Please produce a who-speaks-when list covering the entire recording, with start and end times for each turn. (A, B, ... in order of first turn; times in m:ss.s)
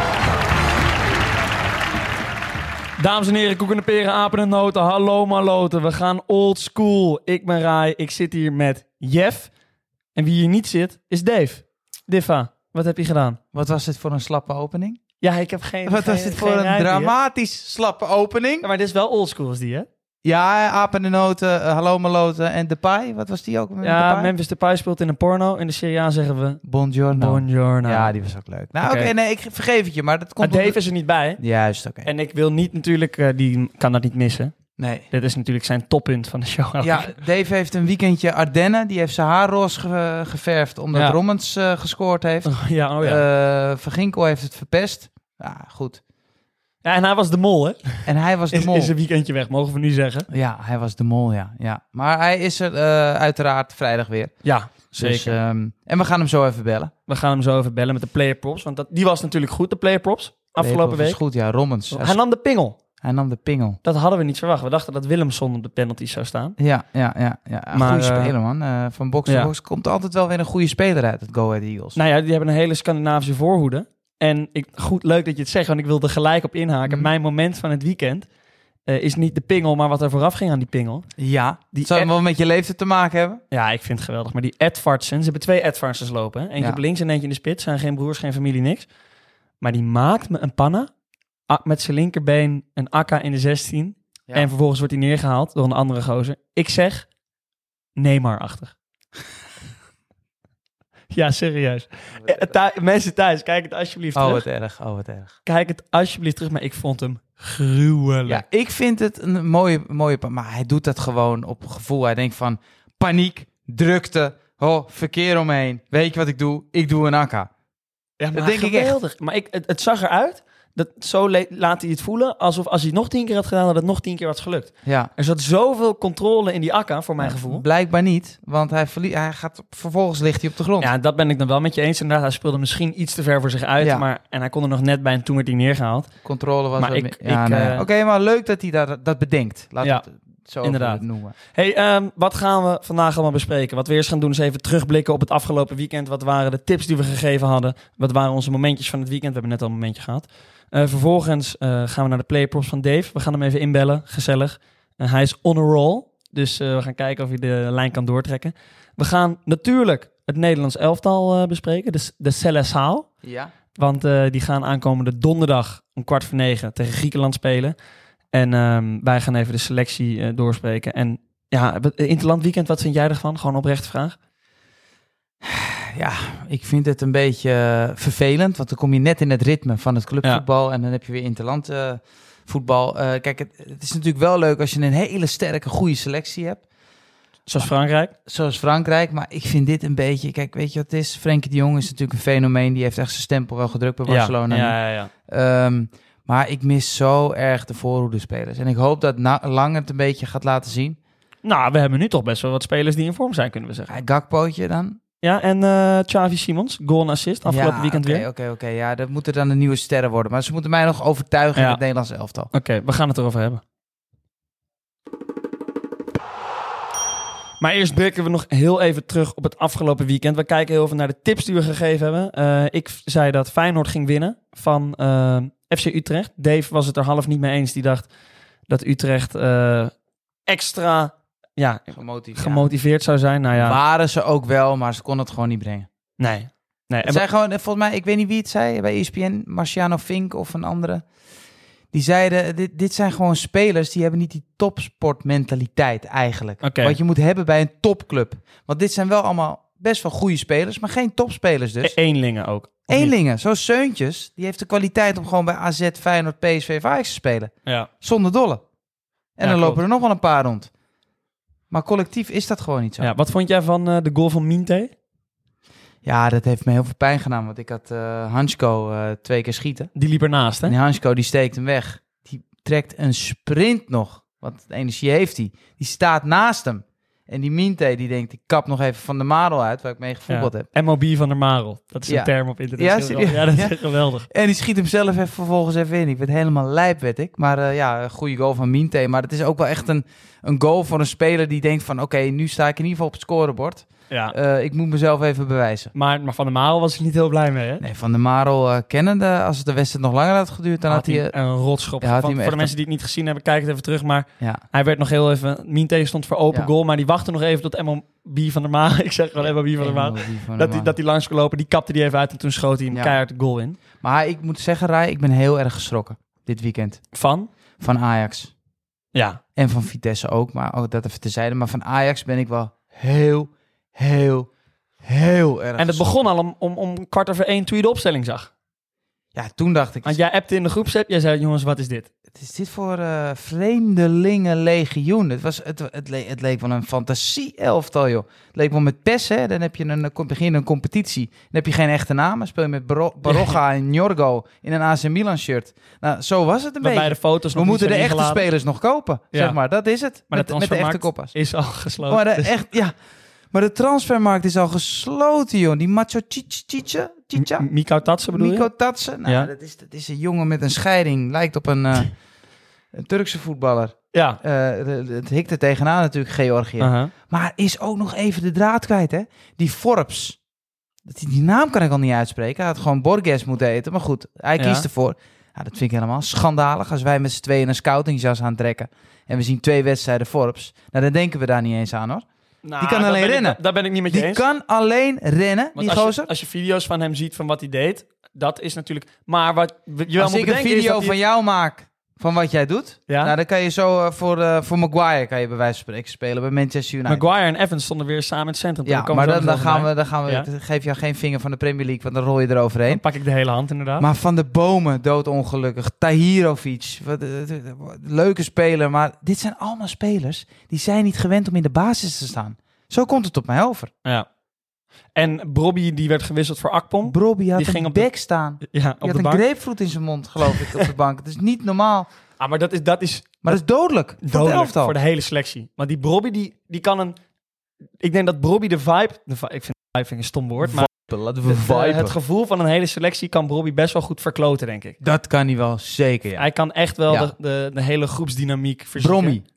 0:03.0-0:09.5 A
0:10.1-0:13.4 A
0:13.5-0:15.0 B
0:15.2-0:17.1 A
0:15.9-0:18.7 B
0:18.6-0:19.9 A
0:20.2-0:24.3 B
0:23.8-0:26.6 A
0:26.6-0:30.8 B
0:27.1-0:28.1 A
0:28.8-0:29.1 A
0:30.4-0:31.4 A
0:31.4-0:32.1 B
0:32.0-0:34.6 A
0:34.8-0:35.1 B
0:35.1-0:37.1 A
0:36.8-0:46.0 B
0:42.4-0:43.2 A
0:46.8-0:50.3 A
0:48.0-0:48.9 B
0:50.3-0:56.9 B
0:54.4-0:55.4 A
0:57.1-1:01.2 A
1:00.6-1:02.2 B
1:01.9-1:02.8 A
1:03.0-1:03.8 B
1:03.8-1:06.6 A
1:06.6-1:12.0 B
1:07.7-1:08.3 A
1:09.3-1:09.5 A
1:12.0-1:18.3 A
1:18.9-1:21.1 A
1:21.2-1:23.4 B
1:21.7-1:22.1 A
1:23.5-1:28.9 A
1:29.6-1:30.9 A
1:31.5-1:37.1 A
1:38.0-1:38.8 A
1:41.1-1:44.4 A
1:42.1-1:42.5 B
1:44.2-1:45.4 B
1:45.4-1:48.4 A
1:48.2-1:57.5 B
1:58.2-2:07.6 A
1:58.3-1:59.0 B
2:04.8-2:05.1 B
2:07.2-2:10.9 B
2:10.8-2:16.1 A
2:13.8-2:14.0 B
2:16.2-2:21.4 B
2:16.8-2:17.8 A
2:20.6-2:43.1 A
2:43.2-2:43.5 B
2:43.8-2:47.8 A
2:48.3-2:54.2 A
2:55.4-3:06.6 B
3:07.5-3:08.1 A
3:08.2-3:21.0 B
3:14.1-3:15.1 A
3:21.4-3:24.0 A
3:23.9-3:25.0 B
3:25.2-3:28.3 A
3:27.5-3:32.5 B
3:31.6-3:31.8 A
3:32.5-3:33.6 A
3:37.6-3:48.1 A
3:48.7-3:49.9 A
3:50.5-3:53.8 A
3:51.9-3:52.7 B
3:53.6-3:55.9 B
3:56.2-3:57.2 A
3:57.0-4:01.1 B
4:01.9-4:12.0 B
4:06.6-4:07.0 A
4:11.8-4:13.1 A
4:12.9-4:18.6 B
4:17.6-4:17.9 A
4:19.4-4:20.7 B
4:19.4-4:19.8 A
4:21.7-4:23.1 B
4:23.0-4:24.9 A
4:26.0-4:29.9 B
4:30.0-4:30.8 A
4:30.7-4:40.7 B
4:40.3-4:44.3 A
4:42.1-4:55.9 B
4:54.1-4:54.4 A
4:55.9-4:57.8 A
4:57.8-5:01.3 B
5:00.9-5:13.8 A
5:02.0-5:02.7 B
5:09.8-5:11.0 B
5:12.9-5:13.2 B
5:14.0-5:17.0 B
5:17.1-5:17.5 A
5:17.8-5:18.5 B
5:19.1-5:19.4 A
5:19.6-5:24.5 B
5:25.0-5:26.1 B
5:25.8-5:28.5 A
5:29.4-5:30.2 B
5:30.0-5:32.1 A
5:32.3-5:51.4 B
5:43.2-5:43.6 A
5:46.8-5:48.5 A
5:50.3-5:52.5 A
5:52.1-5:53.0 B
5:53.5-5:57.7 B
5:57.4-5:58.7 A
5:58.3-6:02.1 B
5:59.2-5:59.5 A
6:02.9-6:10.4 B
6:04.1-6:04.4 A
6:06.8-6:07.1 A
6:11.1-6:22.2 B
6:14.6-6:14.9 A
6:22.6-6:24.4 A
6:22.8-6:26.3 B
6:25.8-6:31.2 A
6:30.2-6:37.2 B
6:33.1-6:33.3 A
6:37.1-6:40.5 A
6:38.9-6:43.0 B
6:42.9-6:44.1 A
6:44.0-6:53.9 B
6:55.2-6:58.1 A
6:57.0-7:02.1 B
6:58.6-6:59.4 A
7:00.5-7:00.9 A
7:02.4-7:03.6 A
7:03.4-7:05.0 B
7:04.2-7:07.2 A
7:08.0-7:10.9 A
7:10.6-7:12.2 B
7:11.4-7:15.0 A
7:15.0-7:16.4 B
7:16.4-7:19.4 A
7:19.0-7:19.4 B